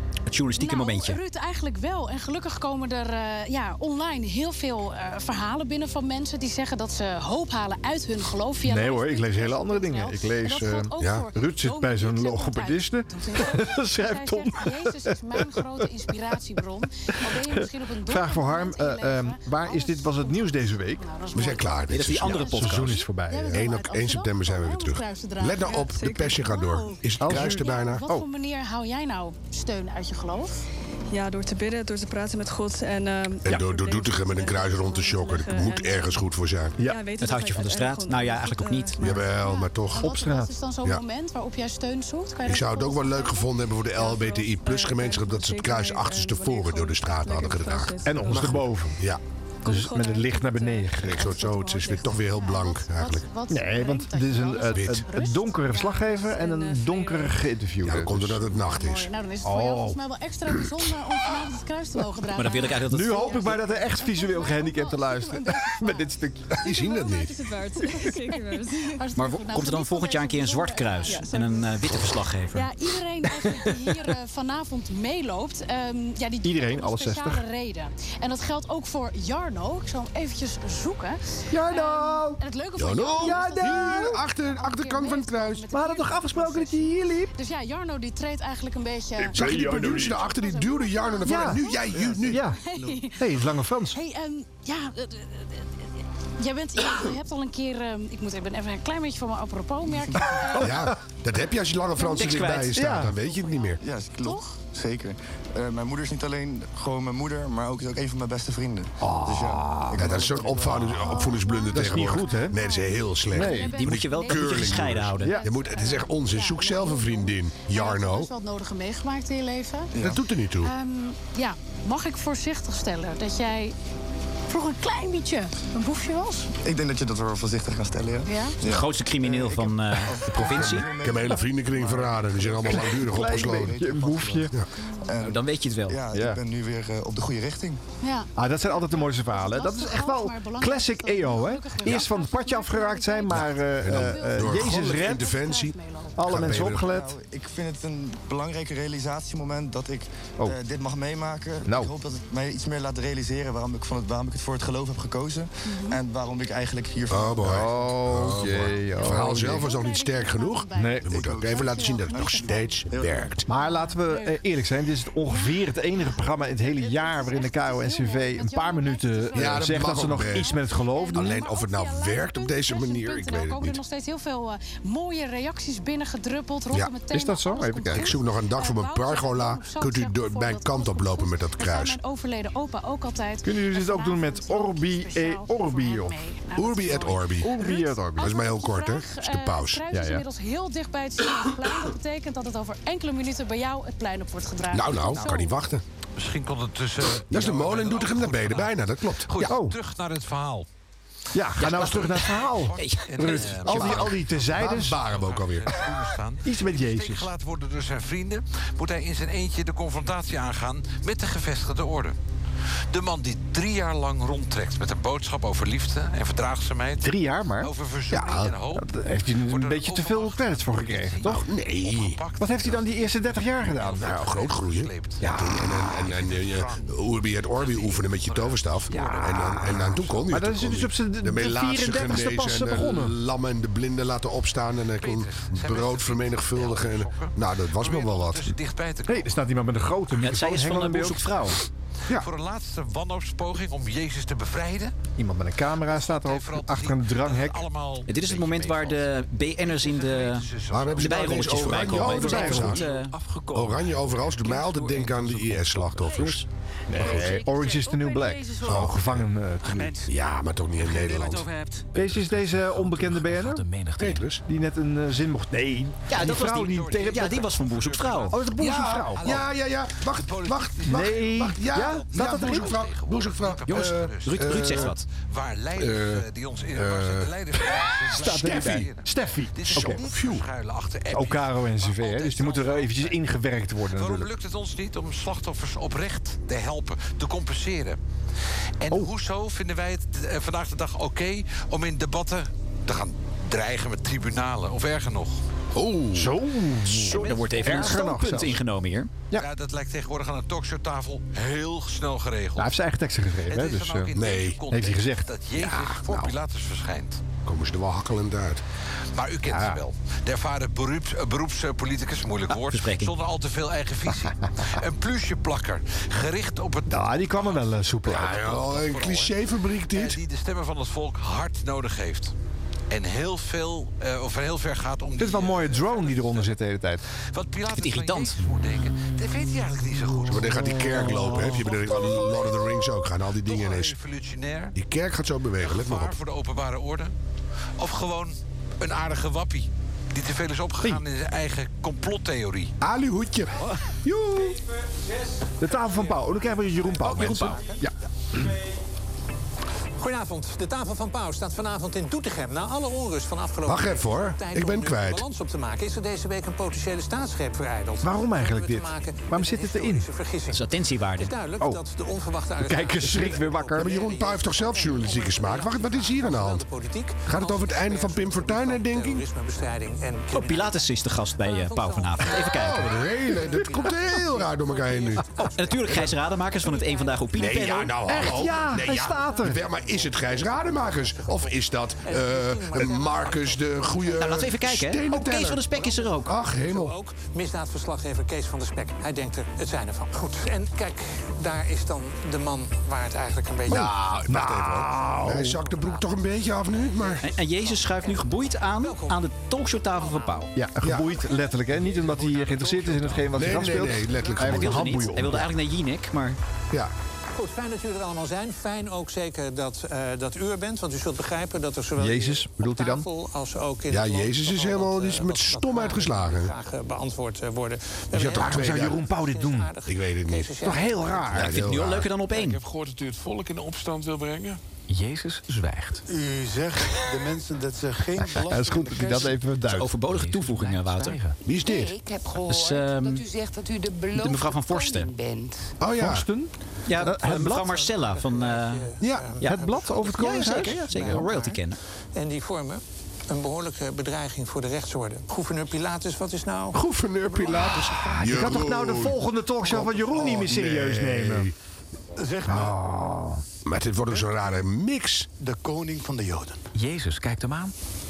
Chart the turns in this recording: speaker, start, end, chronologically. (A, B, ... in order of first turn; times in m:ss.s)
0:00.2-0:01.2 A
0:00.6-0:30.6 B
0:08.6-0:15.8 C
0:11.0-0:11.2 D
0:17.3-0:21.0 C
0:21.3-0:22.6 D
0:21.9-0:23.1 A
0:22.2-0:23.7 C
0:23.5-0:28.0 D
0:26.0-0:26.3 E
0:27.2-0:28.3 C
0:31.1-0:36.1 E
0:33.4-0:36.8 D
0:36.9-0:39.0 E
0:37.2-0:39.1 A
0:39.0-0:40.2 D
0:39.2-0:43.5 B
0:40.0-0:40.5 C
0:42.4-0:49.2 D
0:44.0-0:48.4 E
0:45.0-0:45.8 F
0:48.0-0:49.0 C
0:49.6-0:51.3 C
0:49.7-0:50.9 E
0:51.0-0:53.3 D
0:51.2-0:56.4 B
0:53.5-0:58.4 C
0:54.7-0:55.0 D
0:56.4-0:57.3 E
0:57.8-0:59.1 D
0:58.5-1:06.9 B
0:59.4-1:00.0 C
1:02.3-1:03.4 A
1:02.8-1:06.6 C
1:06.6-1:07.5 D
1:07.6-1:08.5 F
1:07.8-1:11.6 B
1:09.2-1:12.7 A
1:12.5-1:35.8 B
1:16.4-1:17.4 C
1:21.5-1:22.4 C
1:22.8-1:25.7 D
1:23.2-1:24.2 C
1:25.7-1:27.3 C
1:29.2-1:30.2 C
1:29.3-1:32.4 D
1:31.2-1:31.6 C
1:32.0-1:32.3 G
1:32.2-1:32.6 C
1:33.2-1:34.0 C
1:36.4-1:40.9 B
1:40.6-1:43.8 D
1:40.6-1:41.0 C
1:42.0-1:44.6 B
1:42.1-1:42.7 A
1:42.7-1:43.2 C
1:43.8-1:51.1 G
1:49.0-1:50.0 C
1:49.9-1:58.3 D
1:50.8-1:59.9 B
1:51.7-1:52.5 C
1:53.3-1:53.8 C
1:53.7-1:55.4 A
1:59.9-2:00.2 G
2:00.0-2:00.7 D
2:00.6-2:03.7 B
2:04.5-2:06.5 B
2:06.6-2:17.8 G
2:08.2-2:08.6 B
2:08.6-2:10.9 A
2:10.4-2:13.8 D
2:12.7-2:14.5 C
2:15.2-2:16.0 A
2:16.1-2:16.4 C
2:18.0-2:26.3 B
2:18.4-2:25.2 C
2:23.3-2:26.9 D
2:26.2-2:27.1 C
2:26.4-2:37.6 G
2:31.6-2:31.9 C
2:35.7-2:36.0 B
2:37.1-2:43.4 D
2:37.4-2:39.7 C
2:38.8-2:42.8 B
2:40.7-2:41.1 C
2:41.1-2:43.4 G
2:43.5-2:44.4 B
2:43.5-2:51.4 C
2:45.2-3:15.6 B
2:49.3-2:50.5 D
2:51.1-2:53.8 D
2:57.1-2:58.2 C
2:57.9-3:02.0 D
3:03.4-3:06.2 C
3:06.5-3:07.6 D
3:07.4-3:08.3 C
3:08.2-3:09.8 D
3:09.9-3:10.2 C
3:14.7-3:15.8 D
3:16.2-3:20.7 H
3:17.3-3:19.5 D
3:19.4-3:19.8 C
3:21.3-3:25.0 C
3:21.6-3:22.2 A
3:21.6-3:32.2 H
3:22.8-3:23.6 A
3:23.4-3:25.8 D
3:26.4-3:27.3 C
3:32.9-3:45.3 H
3:37.0-3:37.7 C
3:38.1-3:38.5 D
3:38.7-3:41.4 C
3:41.2-3:42.2 D
3:42.4-3:44.2 C
3:44.0-3:58.5 D
3:45.2-3:45.9 C
3:45.8-3:46.9 H
3:47.6-3:50.2 H
3:48.9-3:49.6 C
3:50.3-3:53.2 C
3:55.0-3:59.4 H
3:59.1-4:01.3 C
4:00.1-4:01.6 A
4:02.1-4:04.9 H
4:05.2-4:07.6 C
4:05.9-4:12.1 H
4:08.0-4:10.5 A
4:10.7-4:12.9 D
4:11.0-4:13.1 A
4:12.0-4:12.8 C
4:12.1-4:16.4 I
4:13.5-4:17.3 D
4:16.9-4:20.0 C
4:17.5-4:18.7 J
4:18.6-4:19.2 D
4:20.0-4:21.5 D
4:20.9-4:21.9 J
4:21.9-4:24.3 I
4:21.9-4:23.6 C
4:24.0-4:24.4 D
4:24.4-4:27.4 C
4:26.1-4:28.4 A
4:26.2-4:43.2 H
4:28.3-4:29.4 C
4:28.6-4:35.0 D
4:30.9-4:32.7 C
4:33.7-4:35.0 A
4:35.8-4:37.3 D
4:38.0-4:40.0 C
4:38.1-4:38.8 D
4:39.7-4:40.5 D
4:41.1-4:44.3 C
4:43.9-4:48.0 H
4:48.8-4:55.4 H
4:55.7-4:56.4 D
4:56.1-4:58.6 C
4:56.8-4:59.1 A
4:59.3-5:02.7 H
5:02.6-5:04.1 C
5:03.5-5:07.2 H
5:04.1-5:04.6 D
5:04.7-5:05.3 C
5:05.6-5:06.3 D
5:07.4-5:08.6 D
5:09.1-5:19.4 H
5:09.5-5:09.8 C
5:12.6-5:13.1 A
5:16.9-5:18.4 C
5:18.1-5:20.2 D
5:19.9-5:22.3 H
5:22.9-5:26.5 H
5:25.2-5:27.0 C
5:27.3-5:32.8 H
5:27.7-5:28.4 A
5:30.3-5:34.0 D
5:33.4-5:34.8 H
5:34.7-5:36.1 D
5:35.6-5:37.1 H
5:37.8-5:42.7 H
5:42.8-5:43.6 D
5:44.0-5:44.6 C
5:45.6-5:48.5 C
5:50.0-6:10.8 F
5:53.6-5:55.2 D
5:58.0-6:00.1 C
6:00.5-6:01.4 A
6:02.6-6:04.0 C
6:03.8-6:06.6 D
6:07.2-6:09.2 D
6:10.3-6:12.9 A
6:11.5-6:16.2 F
6:12.4-6:15.4 D
6:15.5-6:18.0 A
6:16.7-6:17.2 F
6:17.3-6:26.9 D
6:18.0-6:19.6 C
6:19.6-6:24.1 F
6:24.1-6:26.4 A
6:25.7-6:34.0 F
6:33.7-6:37.3 D
6:34.3-6:35.6 C
6:35.6-6:39.3 F
6:37.2-6:40.5 A
6:39.9-6:40.4 F
6:40.5-6:45.5 C
6:40.8-6:41.1 D
6:41.2-6:42.2 F
6:42.1-6:43.5 I
6:43.3-6:45.0 D
6:44.4-6:46.4 A
6:47.4-7:01.3 F
6:52.0-6:53.1 C
6:53.9-6:56.5 D
6:58.1-6:59.0 D
6:58.4-6:59.7 C
6:59.8-7:00.5 D
7:00.6-7:01.6 C
7:01.2-7:02.1 D
7:01.3-7:02.6 A
7:02.3-7:04.6 K
7:04.9-7:06.0 I
7:06.1-7:09.4 K
7:08.4-7:09.9 C
7:09.7-7:11.2 A
7:10.0-7:11.4 I
7:11.4-7:12.0 D
7:11.7-7:14.4 J
7:12.4-7:13.3 A
7:14.1-7:15.1 A
7:14.9-7:15.6 J
7:15.8-7:16.2 D
7:16.0-7:17.8 C
7:16.8-7:21.8 A
7:17.3-7:21.6 F
7:19.0-7:19.3 D
7:19.4-7:21.3 C
7:22.1-7:26.8 F
7:26.7-7:31.5 D
7:27.3-7:28.2 F
7:28.1-7:31.5 C
7:32.2-7:32.7 K
7:32.4-7:33.4 C
7:33.6-7:35.3 D
7:35.4-7:36.6 K
7:36.7-7:37.7 I